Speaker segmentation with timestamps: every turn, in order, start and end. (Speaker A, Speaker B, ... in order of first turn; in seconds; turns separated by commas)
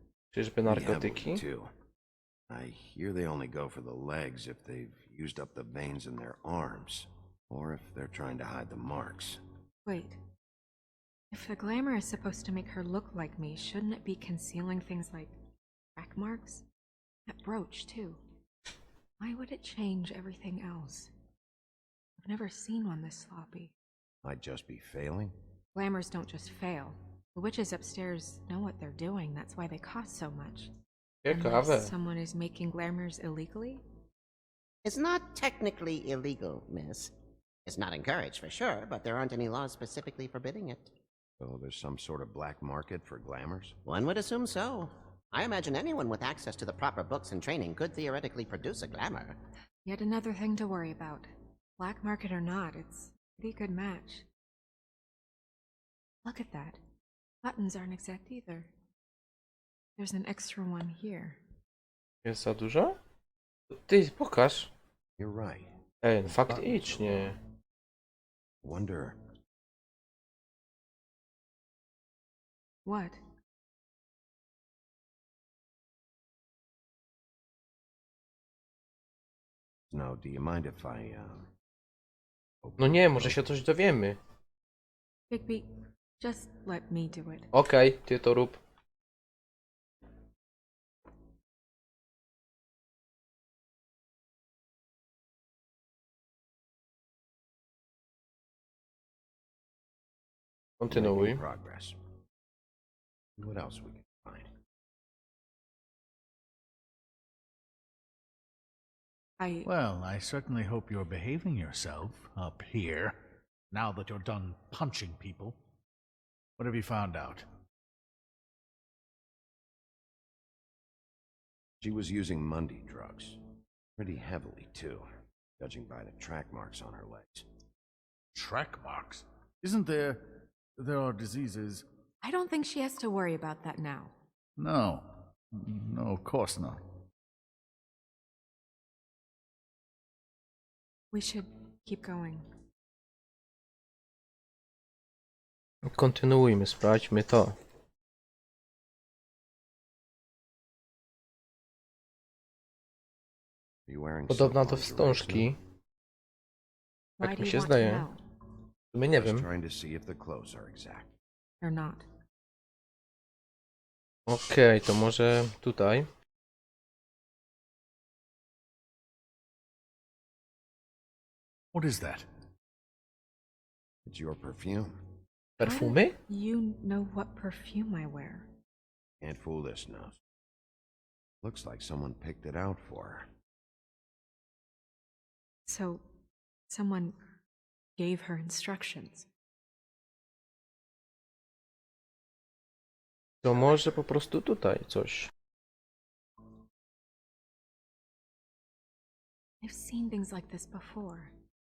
Speaker A: 0.3-1.4, Speaker B: 0.7-1.7, Speaker B: 2.5-9.4, Speaker C: 9.8-10.2, Speaker C: 11.3-15.3, Speaker C: 16.0-16.6, Speaker C: 17.3-18.2, Speaker C: 19.2-21.1, Speaker C: 22.2-23.7, Speaker B: 24.2-25.3, Speaker C: 25.7-30.7, Speaker A: 31.2-31.9, Speaker C: 31.3-33.8, Speaker D: 34.8-37.1, Speaker D: 37.7-40.9, Speaker B: 41.4-43.8, Speaker D: 43.9-49.4, Speaker C: 49.9-54.2, Speaker C: 56.2-56.8, Speaker C: 57.4-58.7, Speaker C: 60.0-61.4, Speaker A: 62.2-63.0, Speaker A: 63.7-64.7, Speaker B: 65.2-65.7, Speaker A: 66.0-67.4, Speaker B: 66.5-67.3, Speaker B: 68.6-69.2, Speaker C: 72.8-73.2, Speaker B: 79.9-81.5, Speaker B: 82.6-83.4, Speaker A: 82.8-84.2, Speaker C: 85.3-87.5, Speaker A: 87.5-88.6, Speaker A: 100.8-101.4, Speaker B: 100.9-102.0, Speaker B: 103.4-104.5, Speaker C: 109.4-109.7, Speaker E: 109.7-113.2, Speaker E: 113.7-115.6, Speaker E: 116.6-117.5, Speaker B: 121.8-123.4, Speaker B: 124.0-125.1, Speaker B: 125.6-127.5, Speaker E: 128.3-131.8, Speaker C: 132.2-134.1, Speaker E: 134.6-136.8, Speaker C: 141.1-142.5, Speaker A: 145.8-147.6, Speaker B: 153.9-155.5, Speaker A: 154.3-155.6, Speaker C: 157.2-158.2, Speaker A: 157.2-158.1, Speaker A: 158.9-159.5, Speaker B: 159.2-161.1, Speaker C: 161.6-162.1, Speaker A: 164.3-166.1, Speaker E: 171.7-172.3, Speaker B: 174.1-175.0, Speaker A: 175.6-176.2, Speaker C: 175.6-178.5, Speaker B: 179.2-180.2, Speaker B: 181.4-183.3, Speaker C: 185.7-186.0, Speaker C: 186.7-187.2, Speaker C: 188.0-189.3, Speaker A: 193.4-195.3, Speaker C: 199.6-201.3